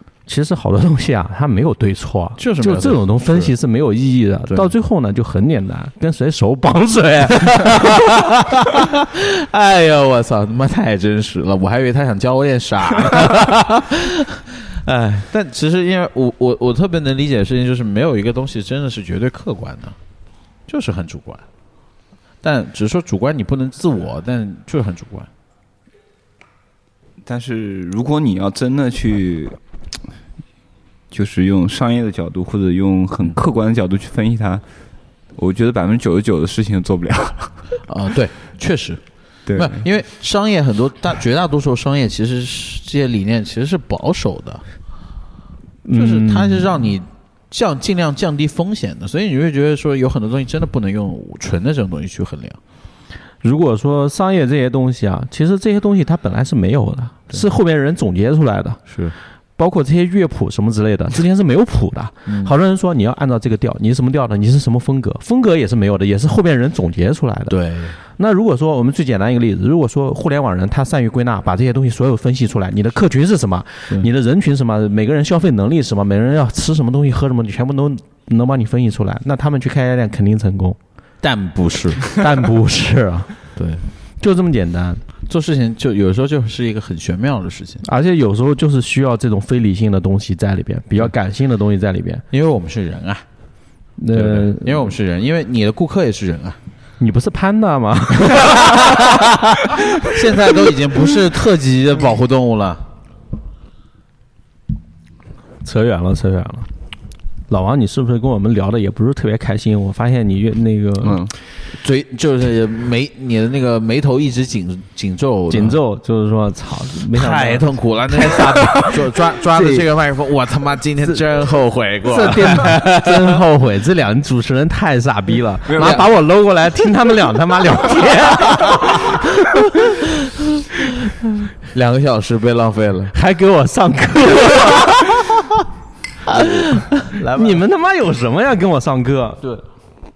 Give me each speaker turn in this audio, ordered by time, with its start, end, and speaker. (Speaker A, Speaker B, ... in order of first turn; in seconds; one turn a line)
Speaker A: 0.3-8.2
Speaker B: 2.4-3.5
Speaker B: 7.6-20.0
Speaker B: 20.7-21.4
Speaker B: 22.4-25.3
Speaker C: 27.2-29.6
Speaker C: 31.1-34.6
Speaker C: 35.4-37.6
Speaker B: 37.9-39.0
Speaker C: 39.5-39.9
Speaker B: 39.5-44.6
Speaker A: 45.9-46.8
Speaker B: 45.9-52.6
Speaker A: 53.4-58.8
Speaker B: 58.9-59.1
Speaker A: 59.6-80.8
Speaker B: 62.3-62.5
Speaker B: 67.5-68.0
Speaker B: 81.2-82.1
Speaker A: 82.1-83.4
Speaker B: 83.5-83.8
Speaker A: 84.2-85.0
Speaker B: 85.3-87.8
Speaker A: 87.8-92.2
Speaker B: 92.3-93.2
Speaker A: 94.0-94.8
Speaker B: 94.1-96.6
Speaker A: 97.0-99.8
Speaker B: 98.4-99.2
Speaker B: 100.0-102.8
Speaker A: 105.6-106.7
Speaker A: 107.5-111.2
Speaker C: 111.0-111.3
Speaker B: 111.7-115.8
Speaker A: 115.5-118.9
Speaker B: 117.1-123.4
Speaker A: 122.1-130.0
Speaker C: 125.7-126.1
Speaker B: 131.7-133.1
Speaker A: 133.1-135.6
Speaker A: 136.3-139.6
Speaker B: 136.3-137.6